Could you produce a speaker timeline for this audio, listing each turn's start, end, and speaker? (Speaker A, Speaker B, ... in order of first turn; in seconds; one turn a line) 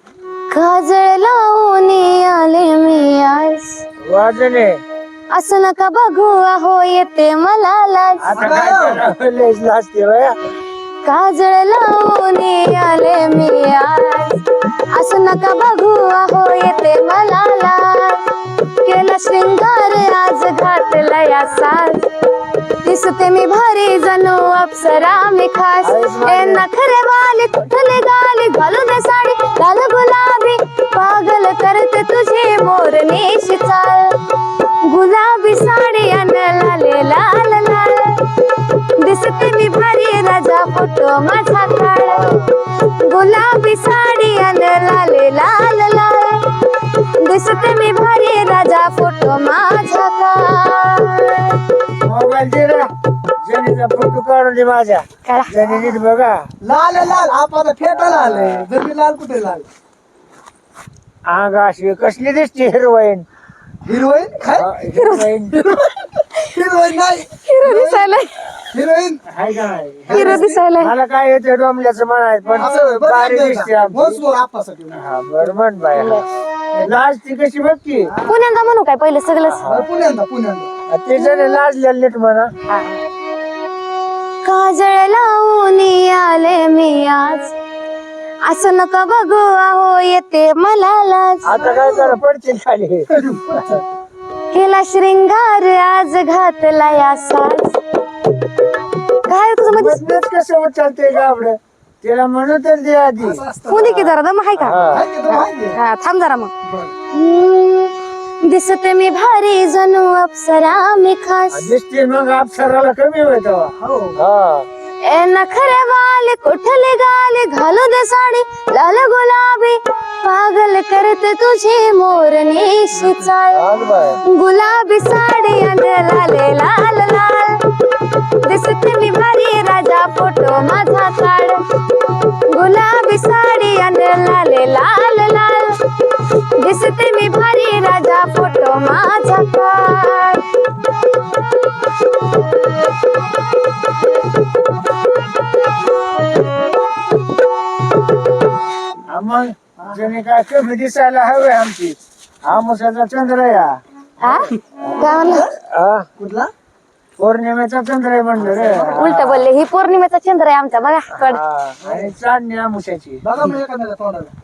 Speaker A: 0.5-3.8
Speaker B: 4.0-4.8
Speaker A: 5.3-8.3
Speaker B: 8.2-10.3
Speaker C: 8.3-9.0
Speaker A: 11.0-18.2
Speaker A: 18.8-22.1
Speaker A: 22.8-34.2
Speaker B: 25.8-26.6
Speaker A: 34.8-51.6
Speaker B: 42.1-42.4
Speaker B: 52.0-52.9
Speaker B: 53.4-56.4
Speaker A: 55.2-55.5
Speaker C: 55.7-55.9
Speaker C: 56.6-59.6
Speaker B: 57.9-58.7
Speaker B: 61.3-63.2
Speaker C: 63.8-64.8
Speaker B: 64.5-65.7
Speaker A: 64.9-66.5
Speaker C: 66.0-69.2
Speaker A: 67.4-68.4
Speaker B: 69.3-74.2
Speaker C: 70.1-70.6
Speaker A: 70.1-70.9
Speaker C: 72.5-75.5
Speaker B: 74.9-76.2
Speaker A: 75.9-76.2
Speaker B: 76.8-78.1
Speaker C: 78.1-78.4
Speaker A: 78.2-79.7
Speaker B: 79.4-79.9
Speaker C: 79.6-80.7
Speaker B: 80.9-82.5
Speaker A: 81.1-81.6
Speaker A: 82.7-83.0
Speaker A: 84.4-87.5
Speaker A: 88.4-91.6
Speaker B: 91.4-93.8
Speaker C: 91.5-92.2
Speaker C: 93.1-93.8
Speaker A: 94.5-97.8
Speaker A: 99.2-100.0
Speaker B: 99.7-105.1
Speaker C: 103.2-103.9
Speaker A: 103.7-106.5
Speaker C: 104.8-105.8
Speaker C: 106.6-106.9
Speaker A: 107.1-111.7
Speaker B: 111.5-114.7
Speaker C: 113.8-114.2
Speaker A: 115.0-123.7
Speaker C: 122.9-123.3
Speaker B: 123.5-124.2
Speaker A: 124.2-127.7
Speaker A: 128.4-135.8
Speaker A: 136.6-140.4
Speaker B: 149.1-153.7
Speaker C: 149.8-150.1
Speaker A: 154.2-155.5
Speaker B: 154.9-156.1
Speaker C: 155.2-155.5
Speaker C: 156.2-156.5
Speaker B: 157.2-159.5
Speaker C: 158.4-159.1
Speaker A: 158.8-161.4
Speaker B: 161.1-163.2
Speaker C: 161.8-162.1
Speaker C: 163.2-164.3